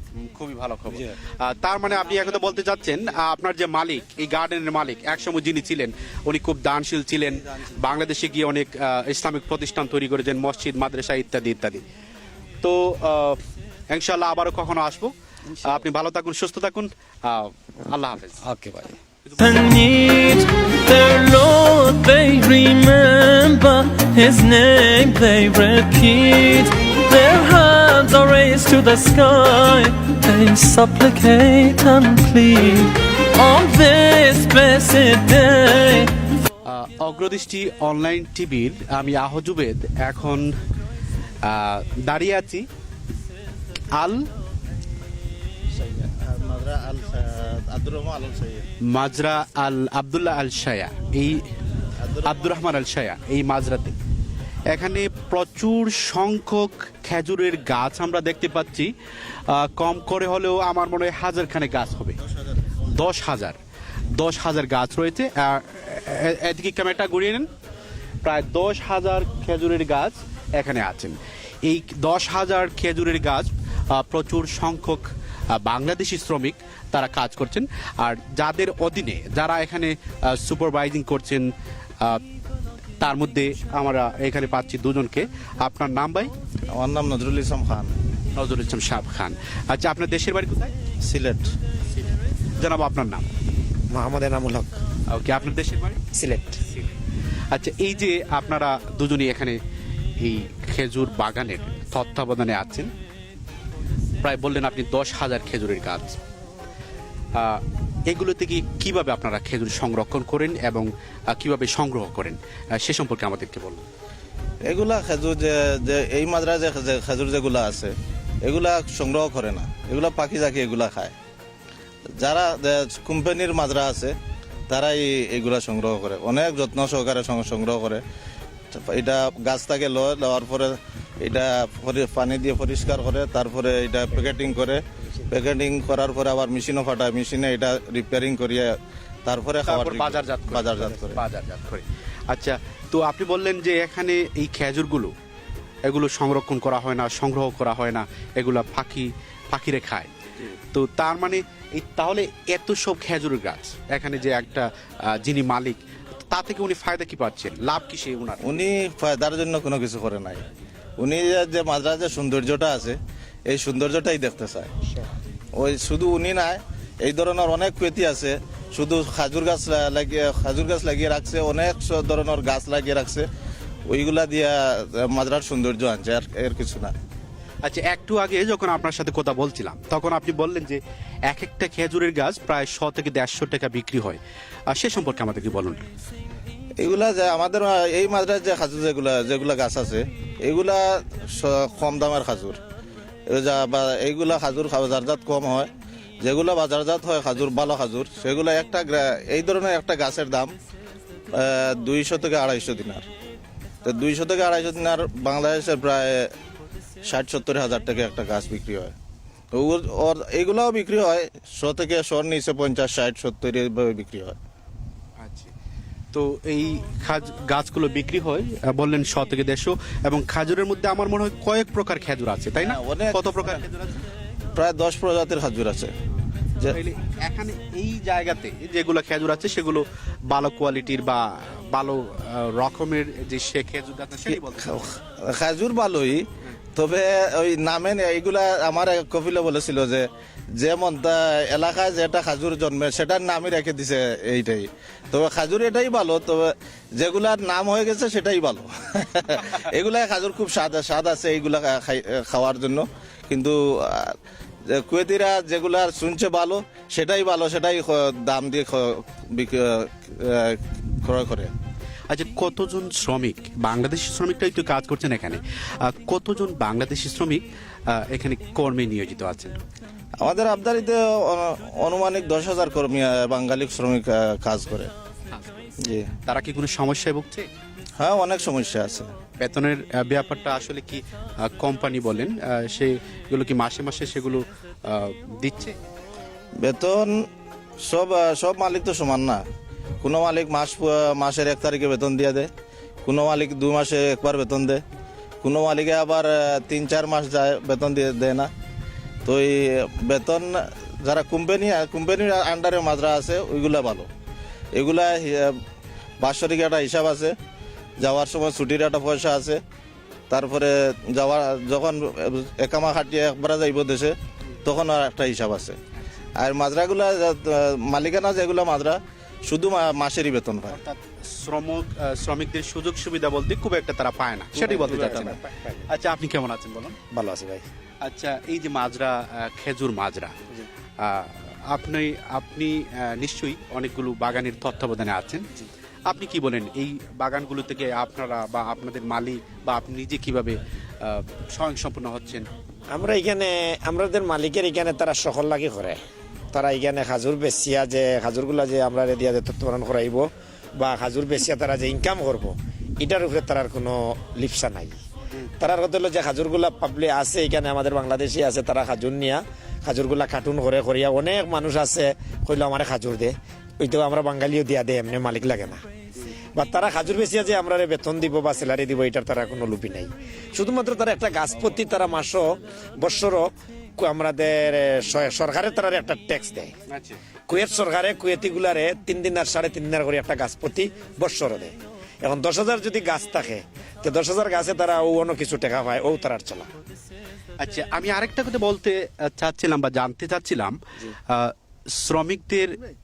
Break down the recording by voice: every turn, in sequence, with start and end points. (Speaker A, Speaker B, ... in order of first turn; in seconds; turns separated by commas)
Speaker A: 0.1-11.8, Speaker B: 0.9-1.1, Speaker B: 1.9-2.7, Speaker B: 7.3-7.8, Speaker A: 12.6-13.4, Speaker A: 13.9-15.1, Speaker B: 15.5-15.8, Speaker A: 15.6-18.4, Speaker B: 18.4-19.0, Speaker A: 19.3-19.5, Speaker C: 19.4-36.1, Speaker A: 36.6-40.5, Speaker A: 41.4-42.6, Speaker A: 44.0-44.2, Speaker D: 45.7-48.7, Speaker A: 48.9-51.5, Speaker D: 52.0-52.7, Speaker A: 52.2-54.0, Speaker A: 54.7-58.9, Speaker A: 59.5-62.2, Speaker A: 62.9-63.6, Speaker A: 64.2-67.5, Speaker A: 68.2-81.5, Speaker A: 83.0-86.3, Speaker D: 86.7-88.0, Speaker A: 88.3-90.7, Speaker D: 91.0-91.5, Speaker A: 91.9-93.3, Speaker E: 93.9-94.7, Speaker A: 95.1-96.0, Speaker E: 96.1-96.6, Speaker A: 97.5-99.6, Speaker A: 100.2-102.9, Speaker A: 104.2-106.2, Speaker A: 107.3-113.8, Speaker D: 114.6-121.1, Speaker D: 122.2-124.1, Speaker D: 124.7-128.0, Speaker D: 128.7-141.2, Speaker A: 139.7-145.1, Speaker A: 145.8-150.1, Speaker A: 150.7-158.6, Speaker D: 158.4-160.4, Speaker D: 161.0-164.7, Speaker D: 165.6-173.3, Speaker D: 173.9-176.9, Speaker A: 177.6-185.8, Speaker D: 186.8-192.6, Speaker D: 193.3-195.7, Speaker D: 196.2-200.5, Speaker D: 201.3-203.1, Speaker D: 203.8-206.3, Speaker D: 207.1-208.9, Speaker D: 209.5-214.4, Speaker A: 215.2-215.5, Speaker A: 216.1-223.9, Speaker D: 222.6-223.7, Speaker D: 224.6-225.9, Speaker A: 226.7-234.9, Speaker D: 234.3-236.2, Speaker D: 236.8-240.1, Speaker D: 240.6-254.2, Speaker D: 254.7-261.5, Speaker A: 262.1-269.6, Speaker D: 270.2-274.9, Speaker A: 275.3-275.7, Speaker D: 275.8-276.1, Speaker A: 276.2-277.5, Speaker D: 278.0-279.1, Speaker A: 279.4-285.8, Speaker D: 286.6-287.2, Speaker D: 287.8-289.4, Speaker D: 290.0-292.5, Speaker D: 293.1-294.8, Speaker D: 295.4-298.5, Speaker D: 299.2-304.1, Speaker D: 304.8-305.6, Speaker D: 306.2-307.3, Speaker D: 308.0-309.6, Speaker D: 310.3-315.8, Speaker D: 316.4-320.8, Speaker A: 320.7-327.0, Speaker E: 324.5-325.9, Speaker E: 327.1-327.6, Speaker A: 328.0-330.4, Speaker A: 331.0-335.4, Speaker A: 336.1-342.5, Speaker E: 342.9-346.0, Speaker E: 346.5-355.0, Speaker E: 355.6-365.8, Speaker E: 366.5-372.5, Speaker E: 373.0-376.7, Speaker A: 376.9-377.2, Speaker E: 377.5-386.7, Speaker A: 387.6-390.8, Speaker A: 391.3-392.8